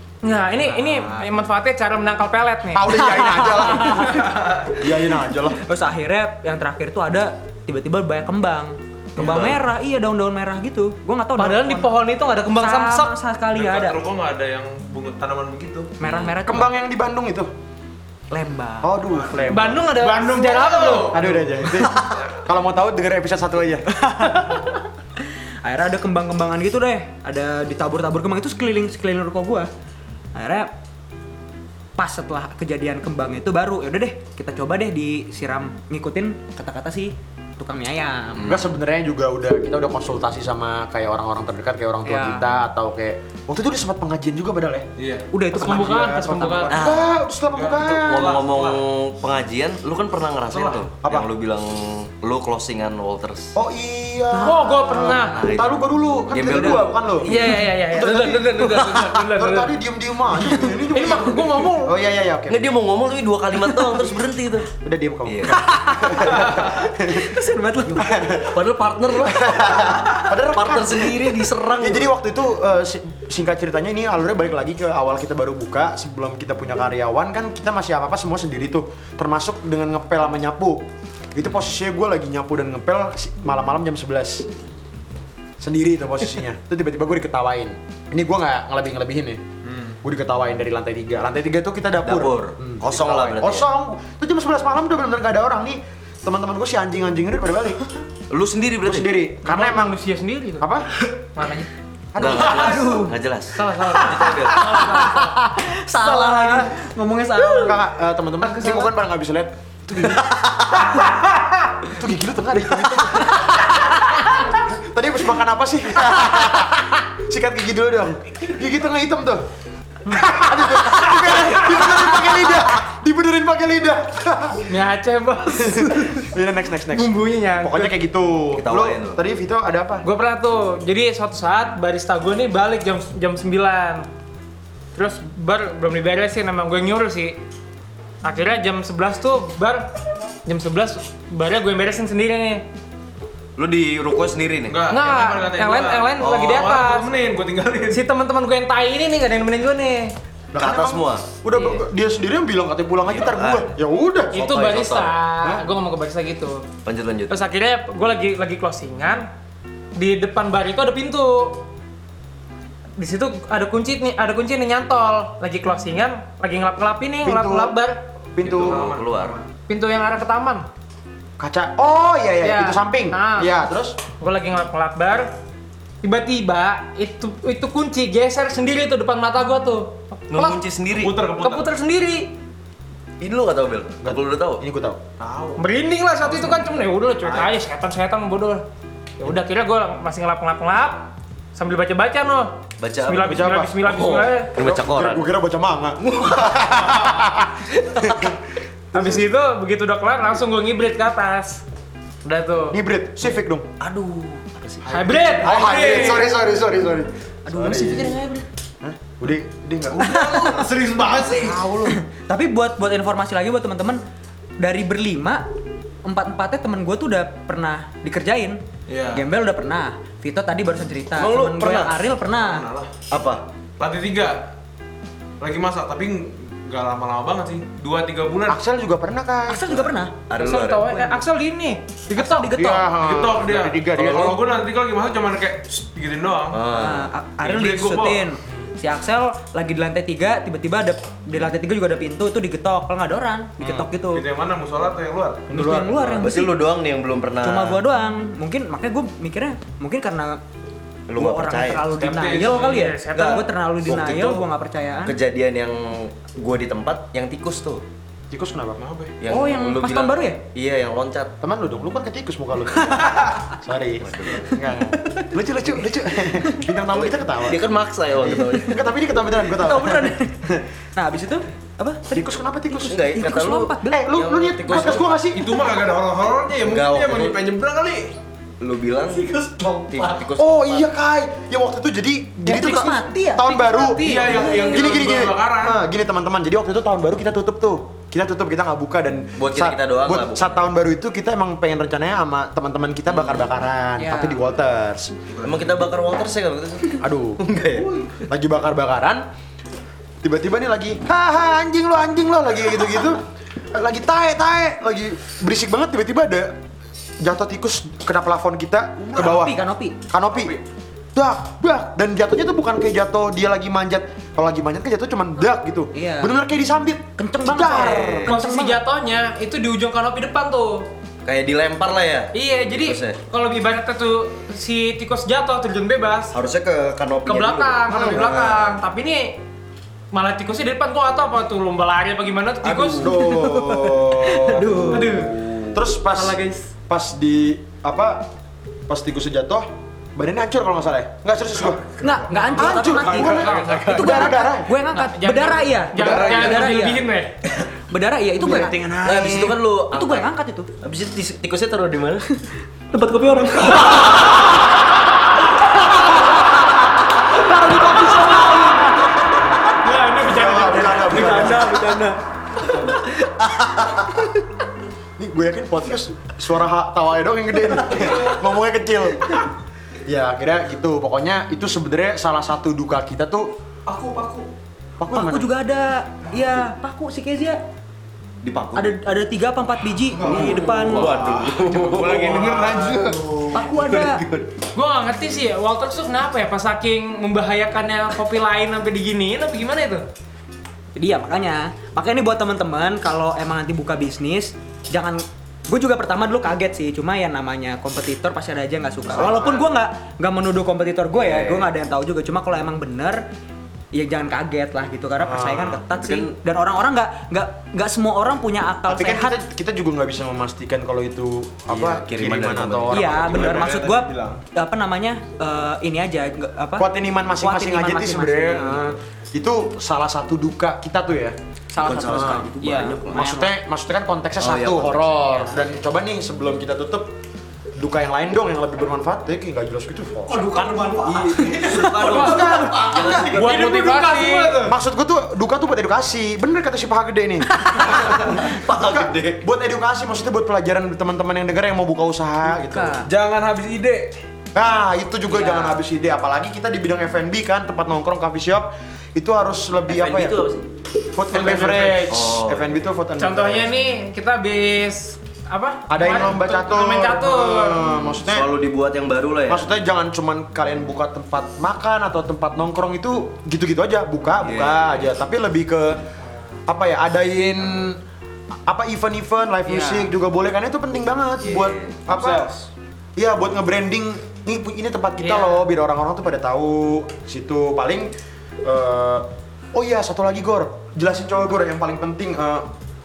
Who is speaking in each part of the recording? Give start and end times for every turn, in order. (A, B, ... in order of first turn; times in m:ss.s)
0:00.2-0:03.0 A
0:02.7-0:05.6 B
0:03.4-0:04.2 C
0:04.1-0:04.7 D
0:05.6-0:11.9 C
0:09.2-0:09.6 E
0:11.4-0:13.2 A
0:12.5-0:14.0 C
0:13.5-0:16.0 D
0:16.0-0:16.7 C
0:16.0-0:16.4 E
0:16.5-0:17.5 B
0:18.3-0:19.0 C
0:18.8-0:19.9 B
0:19.3-0:22.0 D
0:19.5-0:21.2 A
0:21.1-0:23.9 B
0:23.9-0:24.7 C
0:25.6-0:29.7 C
0:30.3-0:30.7 C
0:32.0-0:38.6 C
0:38.4-0:44.9 B
0:42.0-0:42.5 C
0:45.0-0:45.3 D
0:45.3-0:46.7 C
0:45.5-0:46.8 A
0:45.5-0:48.4 B
0:46.7-0:47.2 E
0:47.5-0:48.8 D
0:48.0-0:53.6 E
0:50.5-0:50.8 D
0:50.9-0:51.3 B
0:53.6-0:57.3 B
0:54.4-0:54.8 C
0:54.4-0:55.4 A
0:55.2-0:57.4 E
0:57.2-0:59.7 A
0:57.9-1:02.7 B
1:00.5-1:02.0 A
1:02.5-1:04.7 E
1:04.7-1:08.6 B
1:05.3-1:05.6 E
1:05.5-1:08.2 C
1:08.3-1:12.1 E
1:09.2-1:24.5 B
1:25.6-1:29.4 B
1:29.7-1:30.0 D
1:30.0-1:37.8 B
1:32.0-1:33.7 E
1:38.3-1:39.2 E
1:38.8-1:40.0 B
1:39.4-1:40.7 A
1:40.6-1:40.9 B
1:41.4-1:41.7 A
1:42.1-1:43.0 B
1:42.2-1:44.9 E
1:42.4-1:43.2 C
1:43.5-1:45.4 A
1:44.3-1:47.8 C
1:46.0-1:46.6 B
1:47.4-1:50.9 B
1:48.6-1:48.9 C
1:51.8-1:53.8 B
1:54.5-1:59.5 B
2:00.0-2:04.8 B
2:04.7-2:06.3 A
2:05.6-2:10.0 B
2:06.9-2:08.0 A
2:08.5-2:09.2 E
2:10.0-2:14.1 A
2:15.0-2:17.4 A
2:18.2-2:19.9 A
2:20.4-2:22.6 A
2:23.6-2:24.8 E
2:24.7-2:28.0 D
2:24.9-2:27.1 A
2:26.2-2:26.7 E
2:27.9-2:30.1 A
2:30.5-2:34.5 B
2:30.6-2:31.3 E
2:33.0-2:33.8 E
2:34.3-2:35.2 E
2:34.3-2:36.6 A
2:36.8-2:37.4 E
2:37.3-2:39.2 A
2:40.0-2:41.6 A
2:43.0-2:48.0 A
2:47.2-2:47.8 B
2:48.4-2:48.9 B
2:48.4-2:49.5 D
2:48.5-2:49.4 E
2:49.7-2:50.7 A
2:51.4-2:54.0 B
2:52.4-2:53.5 A
2:54.2-2:55.3 A
2:56.0-3:00.6 A
3:00.3-3:01.2 E
3:00.9-3:01.7 D
3:01.4-3:02.3 A
3:03.2-3:04.6 E
3:04.0-3:05.0 B
3:05.2-3:05.6 D
3:05.6-3:08.6 A
3:06.3-3:06.6 D
3:09.2-3:14.5 A
3:12.8-3:15.2 E
3:13.2-3:13.8 B
3:14.6-3:18.4 B
3:18.9-3:19.2 B
3:18.9-3:21.6 A
3:22.2-3:22.8 A
3:22.7-3:23.7 B
3:23.8-3:24.9 E
3:24.9-3:26.2 A
3:24.9-3:28.2 B
3:25.0-3:26.2 D
3:27.5-3:28.4 C
3:28.8-3:30.7 B
3:30.0-3:31.8 D
3:31.8-3:34.0 C
3:34.6-3:35.5 C
3:36.0-3:42.7 C
3:38.9-3:39.3 D
3:41.2-3:42.0 E
3:42.3-3:42.9 D
3:43.1-3:43.4 E
3:43.8-3:44.5 D
3:45.4-3:48.6 D
3:48.5-3:49.9 B
3:49.5-3:50.2 C
3:50.3-3:51.0 E
3:50.3-3:52.6 A
3:51.0-3:51.2 C
3:52.1-3:52.9 C
3:52.5-3:54.4 B
3:52.9-3:56.6 D
3:56.5-3:57.1 E
3:56.7-4:04.2 C
3:57.4-3:58.4 D
4:03.6-4:03.9 E
4:04.0-4:05.5 D
4:05.5-4:06.3 B
4:05.5-4:06.6 C
4:06.2-4:07.8 E
4:07.4-4:10.4 C
4:11.1-4:11.9 E
4:11.2-4:15.2 C
4:11.9-4:12.8 D
4:12.5-4:13.5 A
4:13.1-4:14.4 E
4:15.0-4:17.8 E
4:18.3-4:18.8 B
4:18.8-4:19.2 D
4:19.2-4:21.3 E
4:19.3-4:20.4 C
4:21.4-4:30.2 B
4:24.0-4:24.5 E
4:25.0-4:25.3 C
4:26.9-4:28.8 E
4:29.5-4:34.0 C
4:32.1-4:33.2 B
4:32.8-4:35.2 E
4:33.9-4:35.5 B
4:35.3-4:38.2 D
4:36.6-4:37.4 E
4:38.6-4:39.4 E
4:39.2-4:40.2 D
4:39.9-4:40.9 E
4:40.4-4:55.2 B
4:42.4-4:43.5 C
4:43.4-4:44.8 A
4:44.0-4:45.8 D
4:44.3-4:44.8 C
4:49.4-4:50.6 E
4:53.1-4:53.5 E
4:54.0-4:54.4 C
4:55.3-4:55.8 D
4:55.4-4:58.1 E
4:57.0-4:57.4 B
4:58.3-4:59.3 B
5:00.2-5:06.6 B
5:07.2-5:10.6 B
5:09.0-5:10.0 C
5:11.2-5:18.3 B
5:15.9-5:16.3 C
5:17.2-5:18.8 C
5:17.8-5:18.3 E
5:18.3-5:20.9 A
5:21.2-5:23.2 E
5:22.3-5:26.3 A
5:26.3-5:28.6 E
5:27.3-5:29.4 A
5:27.9-5:28.6 B
5:30.1-5:33.3 A
5:32.9-5:35.1 B
5:33.2-5:35.3 C
5:34.8-5:35.4 A
5:34.8-5:35.8 E
5:35.7-5:38.3 B
5:36.1-5:36.7 A
5:38.9-5:44.7 B
5:42.0-5:47.0 C
5:42.8-5:43.8 A
5:43.0-5:44.0 D
5:44.9-5:47.4 A
5:46.0-5:46.6 B
5:46.1-5:46.5 D
5:47.9-5:50.7 C
5:48.4-5:49.5 B
5:49.0-5:50.3 E
5:50.8-5:52.3 E
5:52.9-5:54.4 C
5:55.9-5:56.4 C
5:57.3-5:58.9 C
5:57.8-5:58.7 A
5:59.8-6:01.7 A
6:00.2-6:01.8 B
6:00.9-6:02.2 C
6:05.2-6:09.4 B
6:10.0-6:13.6 B
6:13.9-6:14.5 D
6:15.0-6:15.5 B
6:15.1-6:17.6 C
6:18.4-6:19.0 E
6:18.8-6:21.2 C
6:20.2-6:23.6 D
6:20.2-6:24.5 E
6:23.5-6:24.2 C
6:24.7-6:30.0 A
6:31.0-6:43.2 C
6:39.1-6:39.7 B
6:41.2-6:41.7 E
6:43.9-6:49.4 C
6:45.2-6:45.8 B
6:45.9-6:46.3 E
6:48.9-6:53.7 B
6:51.7-6:53.7 E
6:52.9-6:58.9 C
6:53.2-6:54.4 D
6:56.8-7:01.4 B
7:01.7-7:03.5 C
7:01.8-7:03.2 E
7:01.9-7:02.5 B
7:03.1-7:07.1 B
7:04.4-7:05.5 E
7:07.8-7:10.6 B
7:10.3-7:14.8 D
7:11.0-7:13.6 E
7:12.0-7:13.3 B
7:12.1-7:12.4 A
7:13.2-7:14.6 A
7:14.6-7:23.0 B
7:17.9-7:19.4 E
7:22.5-7:23.1 C
7:23.0-7:24.1 D
7:24.5-7:30.4 B
7:25.3-7:25.7 C
7:29.9-7:30.7 E
7:31.1-7:33.7 B
7:31.3-7:32.0 A
7:32.1-7:32.8 E
7:33.2-7:37.8 A
7:35.9-7:38.5 B
7:38.2-7:39.7 E
7:39.5-7:46.1 B
7:44.4-7:45.1 E
7:46.7-7:48.0 B
7:48.7-7:52.5 B
7:49.7-7:50.1 C
7:51.4-7:52.0 E
7:52.1-7:52.7 D
7:53.2-8:02.7 B
7:55.2-7:55.6 A